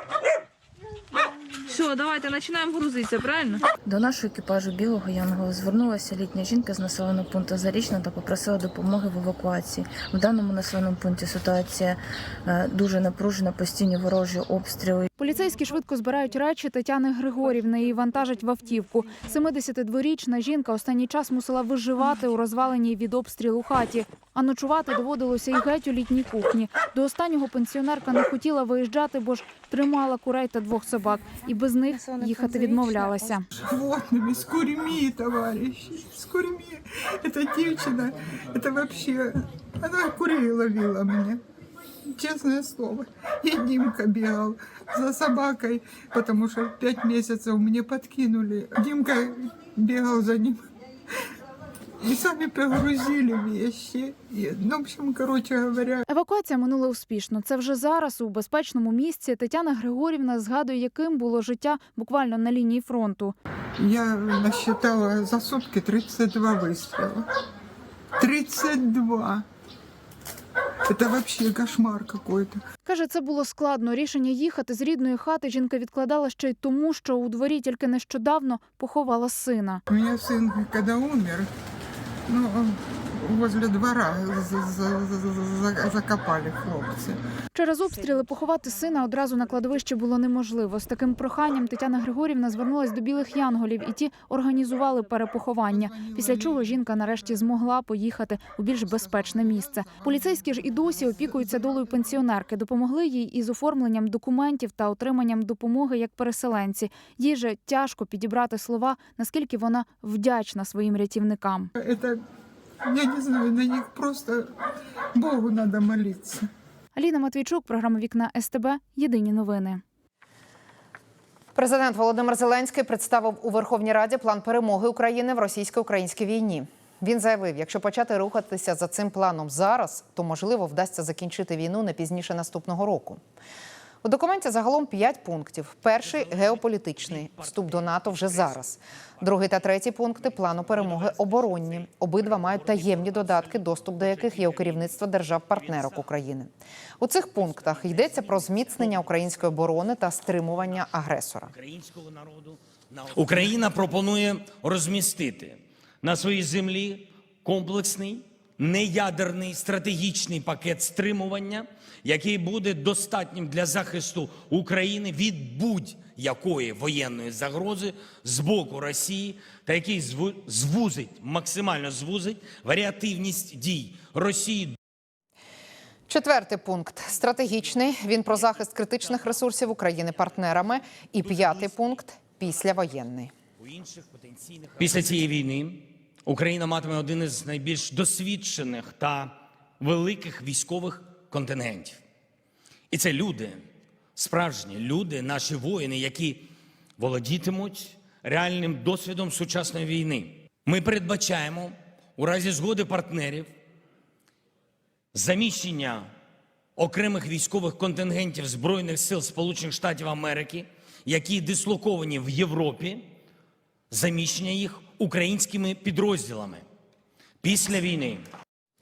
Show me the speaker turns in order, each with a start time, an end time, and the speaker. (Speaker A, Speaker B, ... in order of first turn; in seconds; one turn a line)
Speaker A: 1.7-3.6
Speaker B: 3.8-15.1
Speaker C: 15.2-33.4
Speaker B: 31.9-33.3
Speaker D: 33.6-41.4
Speaker D: 42.1-50.7
Speaker D: 52.0-56.0
Speaker C: 56.1-63.3
Speaker D: 63.8-67.2
Speaker D: 68.2-69.5
Speaker D: 70.9-72.6
Speaker C: 72.8-79.8
Speaker D: 79.9-81.5
Speaker D: 82.3-87.2
Speaker C: 87.5-111.7
Speaker D: 95.7-97.1
Speaker D: 98.8-102.0
Speaker D: 111.8-112.2
Speaker D: 112.8-114.5
Speaker D: 115.1-116.5
Speaker C: 116.9-119.8
Speaker E: 121.5-133.2
Speaker E: 134.0-151.5
Speaker F: 136.2-138.7
Speaker F: 140.2-144.9
Speaker F: 145.5-146.0
Speaker F: 147.4-149.0
Speaker F: 151.5-174.8
Speaker E: 176.1-183.3
Speaker F: 178.3-179.4
Speaker F: 181.2-181.9
Speaker F: 183.6-192.0
Speaker F: 192.9-193.6
Speaker F: 194.2-203.5
Speaker F: 205.1-206.1
Speaker F: 206.8-213.0
Speaker F: 213.9-216.6
Speaker F: 217.4-218.2